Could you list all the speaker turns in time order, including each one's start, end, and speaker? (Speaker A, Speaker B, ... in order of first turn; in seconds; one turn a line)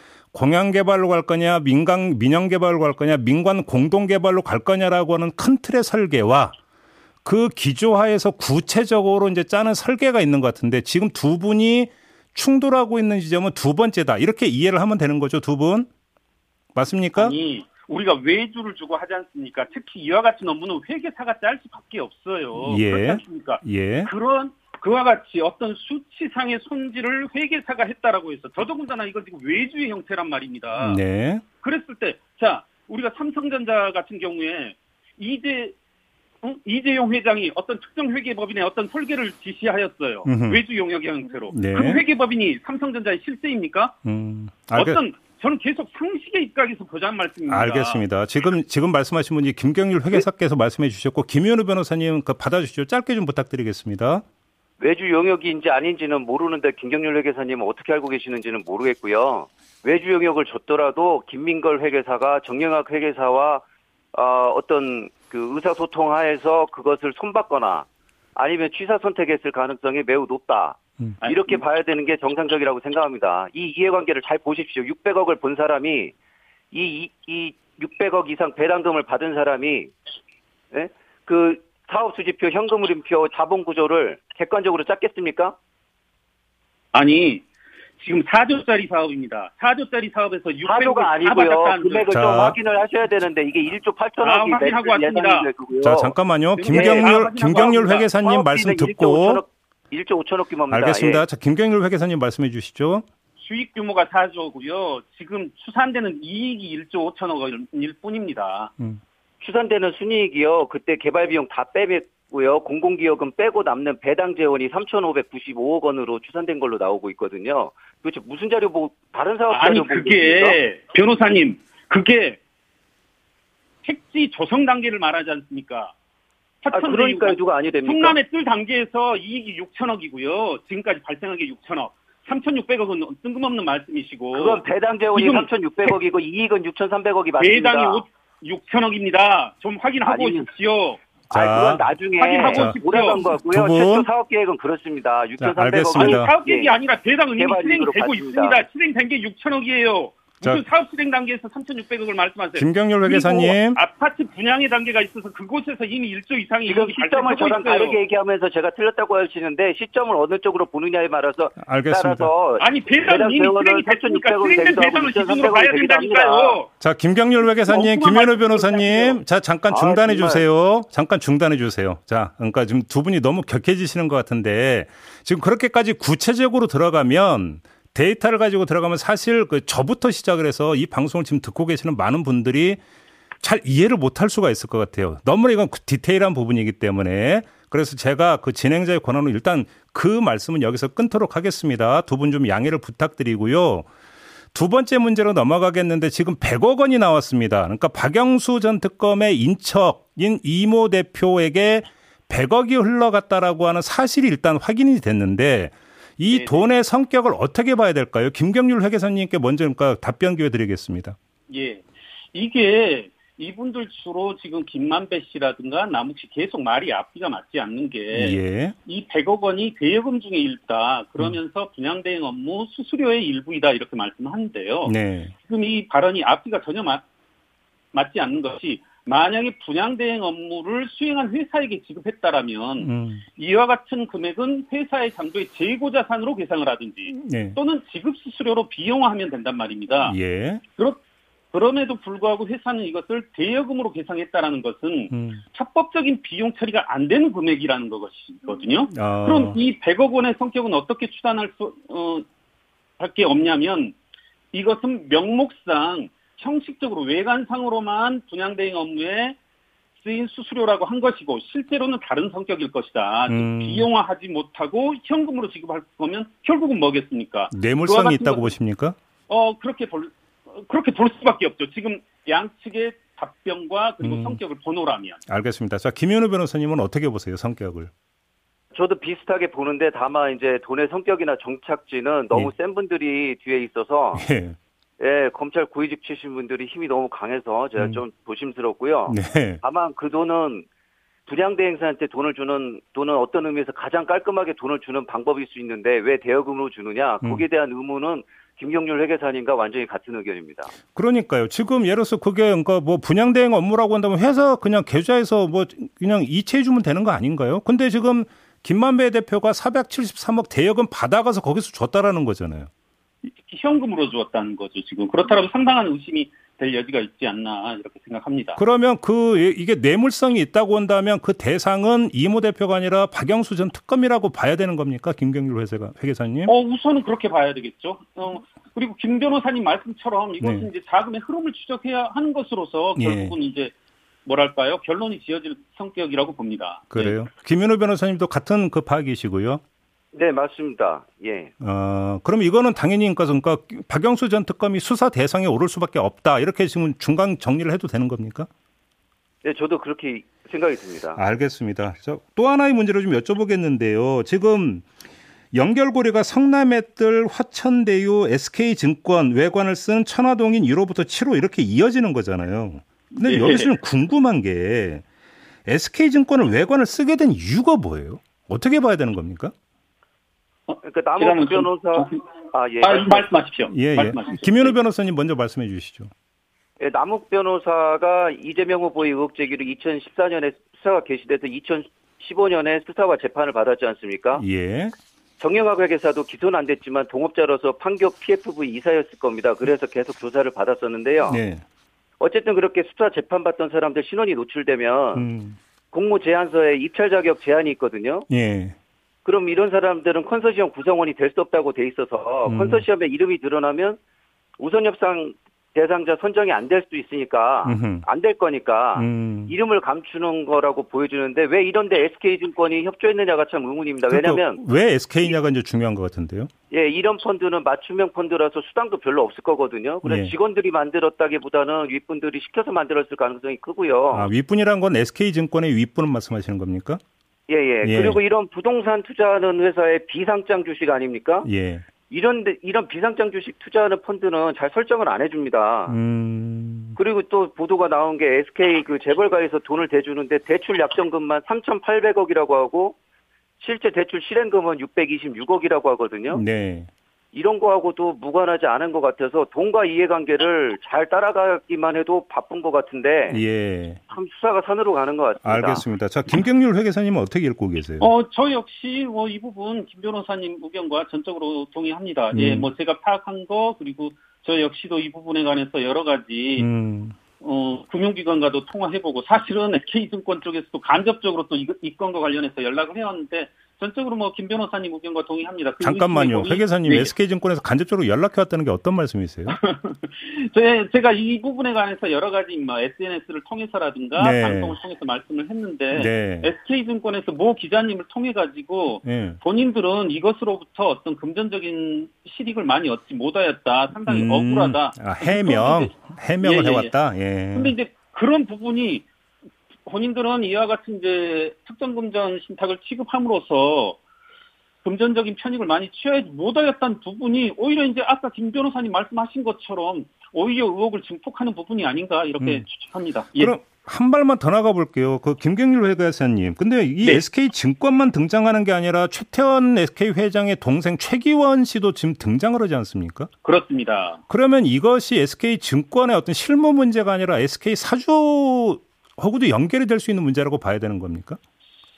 Speaker A: 0.3-6.5
Speaker A: 7.2-15.9
Speaker A: 16.7-17.3
Speaker B: 17.1-31.0
Speaker A: 22.6-24.1
Speaker A: 30.8-31.4
Speaker B: 31.6-35.7
Speaker B: 36.4-44.0
Speaker A: 40.2-40.6
Speaker A: 41.5-42.0
Speaker A: 44.0-45.0
Speaker B: 44.7-48.0
Speaker A: 47.5-54.2
Speaker C: 54.8-76.1
Speaker B: 71.2-71.6
Speaker C: 76.7-79.9
Speaker C: 80.7-85.5
Speaker B: 86.9-87.4
Speaker B: 88.0-92.1
Speaker C: 90.6-96.1
Speaker A: 92.1-92.6
Speaker B: 94.2-95.5
Speaker A: 95.8-99.4
Speaker B: 96.6-98.1
Speaker C: 96.7-97.1
Speaker C: 98.2-101.2
Speaker A: 100.7-103.0
Speaker B: 103.4-108.7
Speaker C: 109.4-120.5
Speaker B: 119.5-122.4
Speaker B: 123.8-125.9
Speaker B: 126.6-134.6
Speaker C: 126.7-128.2
Speaker C: 134.3-138.0
Speaker B: 135.1-135.9
Speaker B: 137.4-141.0
Speaker C: 140.0-140.4
Speaker A: 141.3-141.8
Speaker C: 141.3-146.8
Speaker B: 142.2-143.2
Speaker A: 142.5-144.1
Speaker A: 145.4-146.3
Speaker B: 145.9-158.0
Speaker C: 147.3-148.6
Speaker A: 152.6-153.8
Speaker C: 156.7-166.6
Speaker A: 161.6-162.3
Speaker B: 162.6-166.7
Speaker A: 166.8-182.8
Speaker B: 167.6-169.2
Speaker C: 169.7-170.4
Speaker A: 183.4-193.9
Speaker A: 194.5-211.2
Speaker B: 206.3-206.6
Speaker B: 211.5-224.9
Speaker A: 218.1-218.7
Speaker A: 224.8-225.3
Speaker B: 225.5-227.0
Speaker B: 227.9-240.2
Speaker A: 232.8-233.2
Speaker A: 237.1-237.6
Speaker A: 240.0-240.6
Speaker B: 241.5-252.2
Speaker A: 245.1-245.4
Speaker A: 248.9-249.6
Speaker B: 253.0-253.9
Speaker B: 254.5-259.4
Speaker B: 260.0-268.5
Speaker A: 263.3-263.9
Speaker A: 267.5-268.9
Speaker B: 269.3-275.2
Speaker A: 274.0-274.4
Speaker A: 275.3-277.9
Speaker C: 278.7-284.2
Speaker A: 284.1-284.6
Speaker C: 285.0-290.6
Speaker A: 289.1-289.6
Speaker C: 291.3-300.7
Speaker A: 300.9-312.7
Speaker B: 313.2-318.6
Speaker A: 318.6-326.5
Speaker B: 326.5-333.7
Speaker A: 330.4-330.7
Speaker A: 333.0-333.3
Speaker B: 334.2-337.2
Speaker A: 336.9-339.6
Speaker C: 340.1-341.5
Speaker A: 341.6-348.5
Speaker C: 349.4-351.2
Speaker A: 351.1-354.9
Speaker A: 355.5-365.0
Speaker B: 363.2-363.7
Speaker A: 365.6-369.5
Speaker B: 370.7-372.2
Speaker C: 370.8-373.3
Speaker B: 372.8-374.5
Speaker A: 373.7-376.1
Speaker C: 376.8-384.4
Speaker A: 384.4-384.9
Speaker C: 385.4-391.4
Speaker A: 391.3-391.6
Speaker C: 392.2-395.3
Speaker A: 395.1-395.6
Speaker C: 395.9-398.3
Speaker A: 398.3-398.8
Speaker C: 399.2-404.0
Speaker A: 402.4-402.8
Speaker C: 404.6-414.6
Speaker A: 407.6-408.0
Speaker A: 408.9-409.5
Speaker A: 414.1-416.5
Speaker C: 416.7-424.3
Speaker A: 420.0-420.3
Speaker A: 424.1-427.0
Speaker C: 427.5-431.5
Speaker A: 427.8-428.2
Speaker A: 431.4-431.8
Speaker C: 432.1-435.9
Speaker A: 435.9-436.9
Speaker C: 436.9-442.9
Speaker C: 443.6-446.4
Speaker A: 446.3-446.9
Speaker C: 447.3-453.4
Speaker A: 453.3-454.0
Speaker C: 454.1-455.8
Speaker A: 455.4-458.1
Speaker B: 458.0-466.7
Speaker A: 462.3-462.7
Speaker A: 466.6-467.1
Speaker B: 467.4-477.1
Speaker A: 475.8-479.6
Speaker B: 479.5-496.9
Speaker A: 484.1-484.8
Speaker A: 485.9-486.5
Speaker A: 489.0-489.4
Speaker A: 494.1-497.7
Speaker B: 497.5-499.1
Speaker B: 499.9-504.0
Speaker B: 504.8-513.5
Speaker A: 513.4-523.3
Speaker B: 523.4-524.2
Speaker A: 524.3-531.4